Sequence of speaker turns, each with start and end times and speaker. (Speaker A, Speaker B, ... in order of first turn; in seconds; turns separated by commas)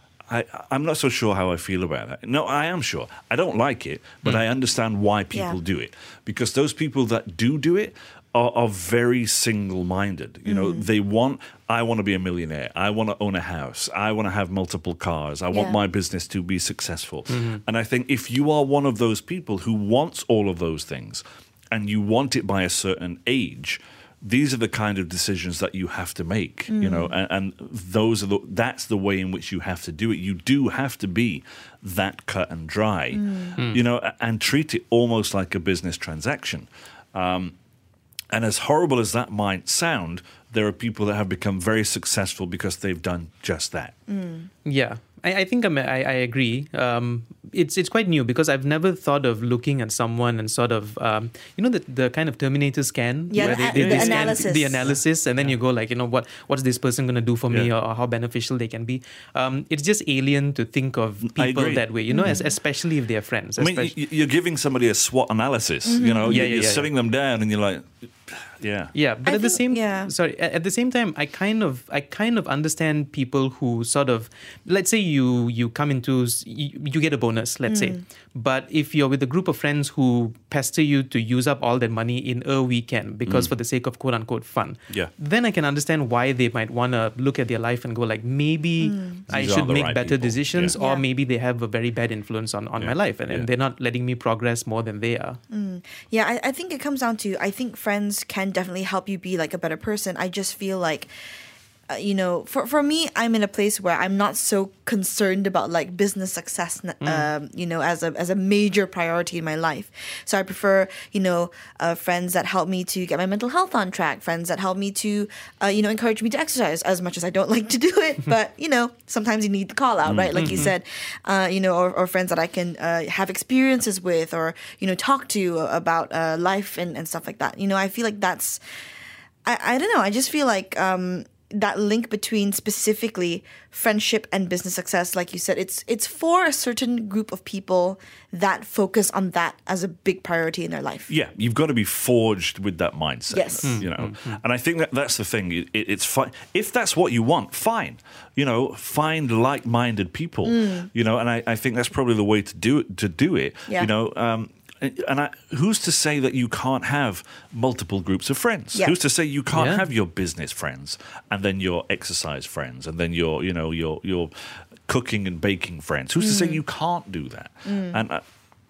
Speaker A: 0.3-37.5, Speaker B: 5.3-5.6, Speaker B: 10.5-10.9, Speaker B: 15.5-15.8, Speaker C: 17.3-17.6, Speaker B: 26.7-27.1, Speaker B: 33.1-33.5, Speaker A: 38.3-43.9, Speaker B: 44.1-44.5, Speaker C: 44.6-63.9, Speaker B: 53.3-54.9, Speaker A: 53.4-54.4, Speaker A: 61.3-62.3, Speaker B: 62.1-62.5, Speaker A: 63.6-68.9, Speaker B: 65.8-66.5, Speaker C: 66.2-66.9, Speaker C: 68.9-95.4, Speaker B: 69.2-70.1, Speaker B: 77.7-78.0, Speaker B: 88.8-89.2, Speaker A: 89.3-90.7, Speaker B: 90.8-91.0, Speaker A: 92.8-93.5, Speaker B: 95.5-101.1, Speaker B: 101.9-128.6, Speaker C: 107.0-107.3, Speaker A: 120.0-120.6, Speaker C: 120.3-120.7, Speaker B: 129.4-141.1, Speaker A: 141.1-168.2, Speaker B: 143.3-143.8, Speaker C: 143.6-144.4, Speaker B: 150.4-150.9, Speaker C: 159.5-159.8, Speaker B: 166.2-166.6, Speaker B: 167.7-168.0